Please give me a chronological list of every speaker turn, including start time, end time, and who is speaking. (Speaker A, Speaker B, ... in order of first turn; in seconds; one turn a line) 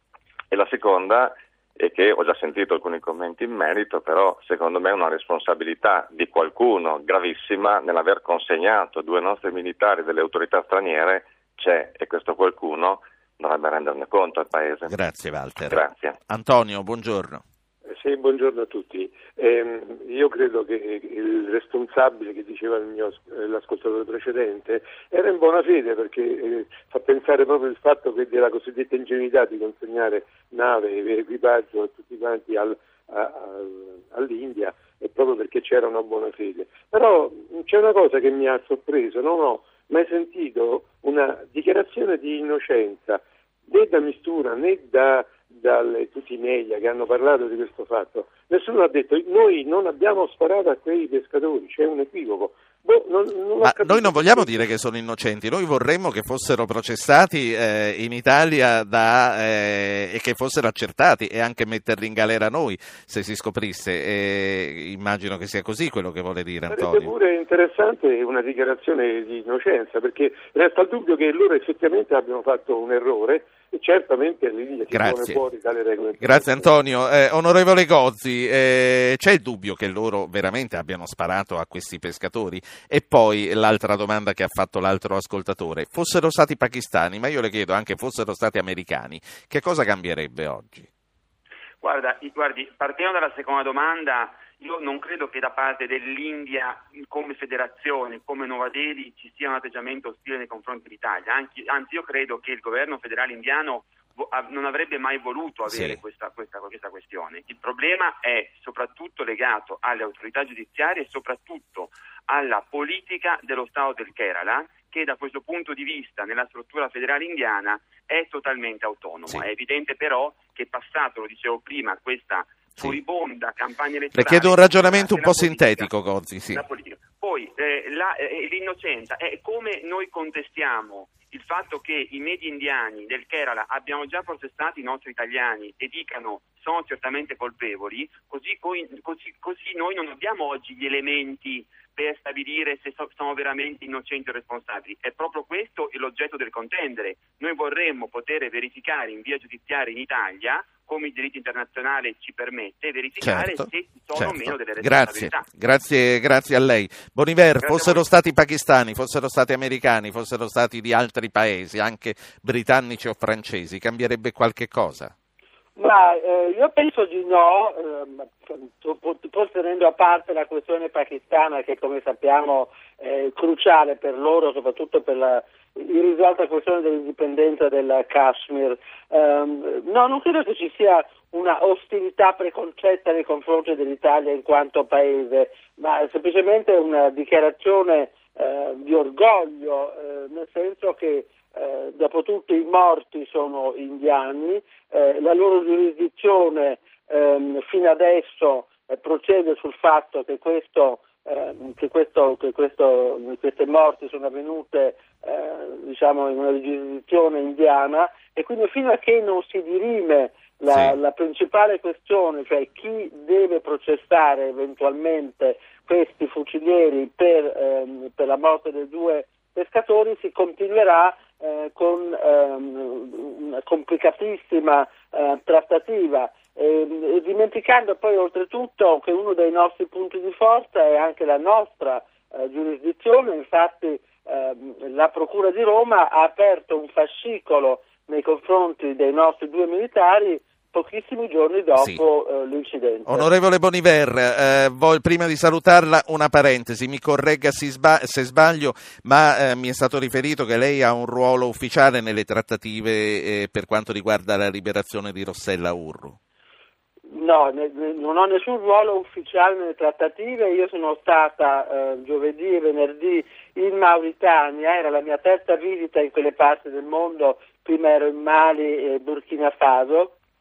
Speaker A: 0.5-14.9
Speaker B: 14.9-17.4
Speaker A: 15.7-16.2
Speaker C: 17.9-54.7
Speaker B: 53.6-67.1
Speaker C: 66.7-76.7
Speaker B: 74.9-75.4
Speaker B: 76.2-90.9
Speaker D: 91.8-125.9
Speaker B: 105.7-106.0
Speaker B: 124.1-126.7
Speaker D: 126.5-155.5
Speaker B: 153.2-165.1
Speaker D: 157.6-158.0
Speaker E: 165.8-243.3
Speaker B: 241.8-242.0
Speaker B: 243.1-256.2
Speaker E: 257.1-270.2